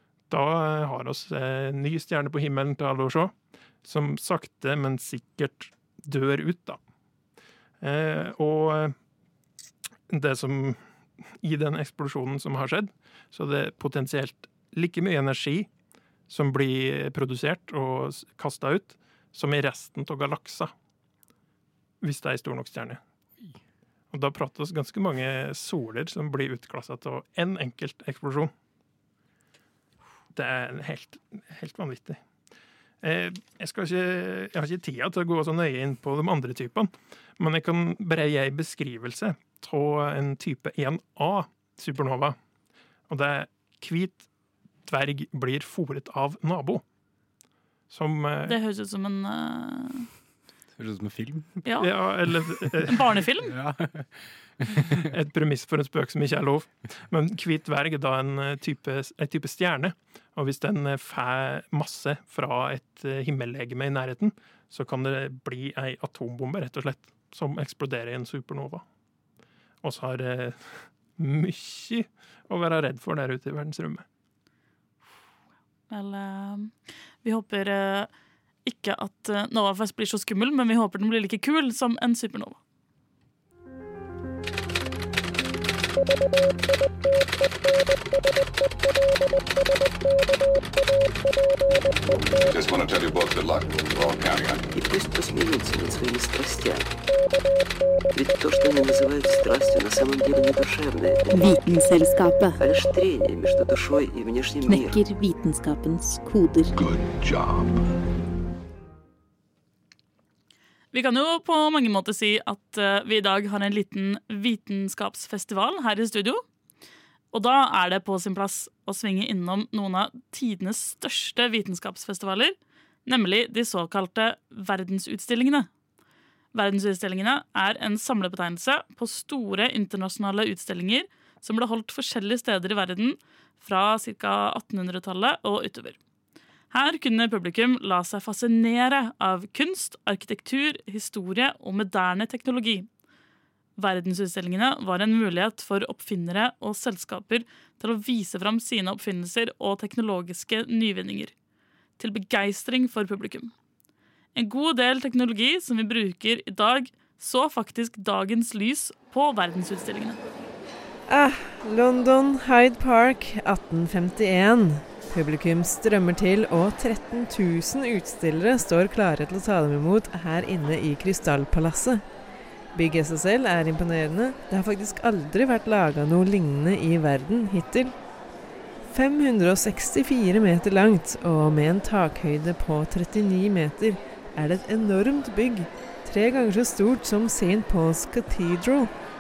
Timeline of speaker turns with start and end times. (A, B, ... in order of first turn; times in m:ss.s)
0:00.3-0:03.3 A
0:03.8-0:06.8 A
0:07.8-0:09.0 A
0:10.1-0:10.8 A
0:11.4-0:15.7 A
0:16.3-0:20.7 A
0:22.0-0:23.0 A
0:24.1-0:28.5 A
0:30.3-0:32.2 A
0:33.0-0:42.4 A
0:43.1-0:44.3 A
0:44.9-0:46.8 A
0:47.9-0:48.6 A
0:48.5-0:50.1 B
0:50.8-0:51.6 C
0:51.8-0:53.0 A
0:52.9-0:53.5 B
0:53.4-0:55.1 C
0:54.9-1:08.8 A
1:09.8-1:14.0 A
1:15.9-1:18.1 B
1:18.6-1:22.6 B
1:32.5-1:34.6 D
1:34.7-1:36.9 E
1:38.1-1:41.8 E
1:41.4-1:42.2 F
1:42.6-1:45.0 E
1:44.7-1:46.8 F
1:46.8-1:47.7 D
1:50.9-1:56.4 B
1:57.3-2:05.7 B
2:06.5-2:16.0 B
2:16.7-2:22.9 B
2:23.8-2:31.3 B
2:32.0-2:33.5 B
2:34.4-2:40.2 B
2:41.1-2:52.0 G
2:52.7-2:57.9 G
2:58.9-3:08.9 G